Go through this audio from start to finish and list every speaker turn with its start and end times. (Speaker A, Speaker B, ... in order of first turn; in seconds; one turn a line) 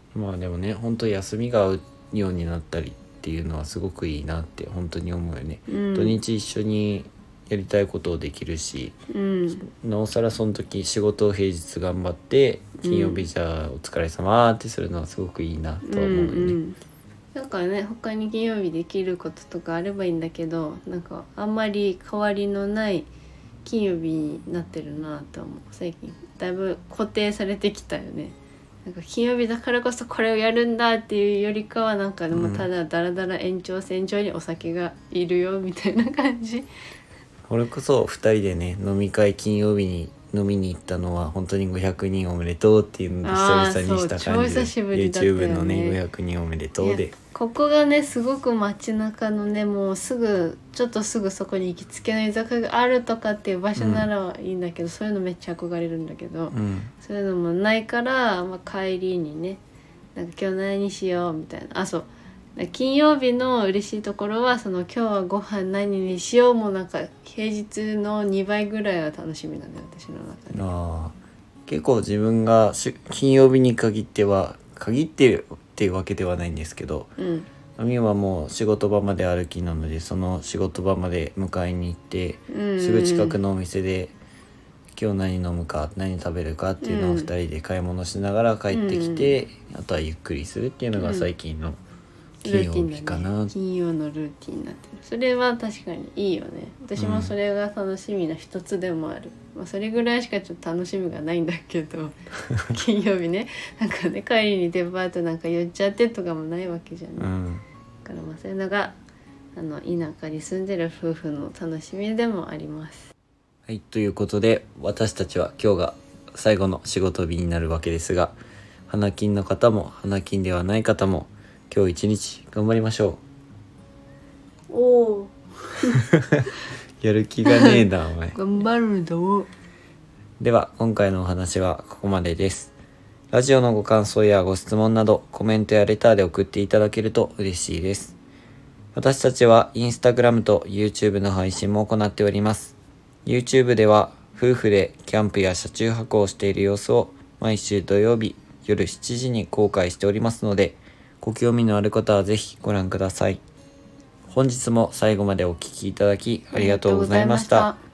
Speaker A: 0.1-9.0
Speaker B: 5.7-6.2
Speaker B: 9.1-9.7
Speaker A: 9.6-16.6
Speaker B: 12.8-13.3
Speaker B: 15.8-16.8
Speaker B: 17.3-23.1
Speaker B: 23.6-36.7
Speaker A: 32.3-32.7
Speaker A: 37.5-47.1
Speaker B: 43.2-46.0
Speaker B: 46.8-59.6
Speaker A: 53.8-54.1
Speaker A: 56.5-56.9
Speaker B: 60.1-70.7
Speaker A: 70.5-77.1
Speaker B: 77.2-77.5
Speaker A: 77.8-84.1
Speaker B: 82.5-83.4
Speaker A: 84.9-91.8
Speaker B: 86.8-87.3
Speaker B: 88.7-89.3
Speaker B: 91.0-91.3
Speaker A: 92.4-93.5
Speaker B: 92.4-107.3
Speaker A: 97.0-97.3
Speaker A: 107.2-107.6
Speaker B: 108.0-109.0
Speaker B: 109.5-113.1
Speaker A: 113.7-118.3
Speaker A: 118.9-123.2
Speaker B: 124.7-126.0
Speaker A: 126.1-126.5
Speaker A: 127.0-128.3
Speaker B: 127.4-129.5
Speaker A: 130.4-132.7
Speaker A: 133.3-138.2
Speaker A: 138.9-153.4
Speaker A: 154.2-157.7
Speaker B: 156.5-157.8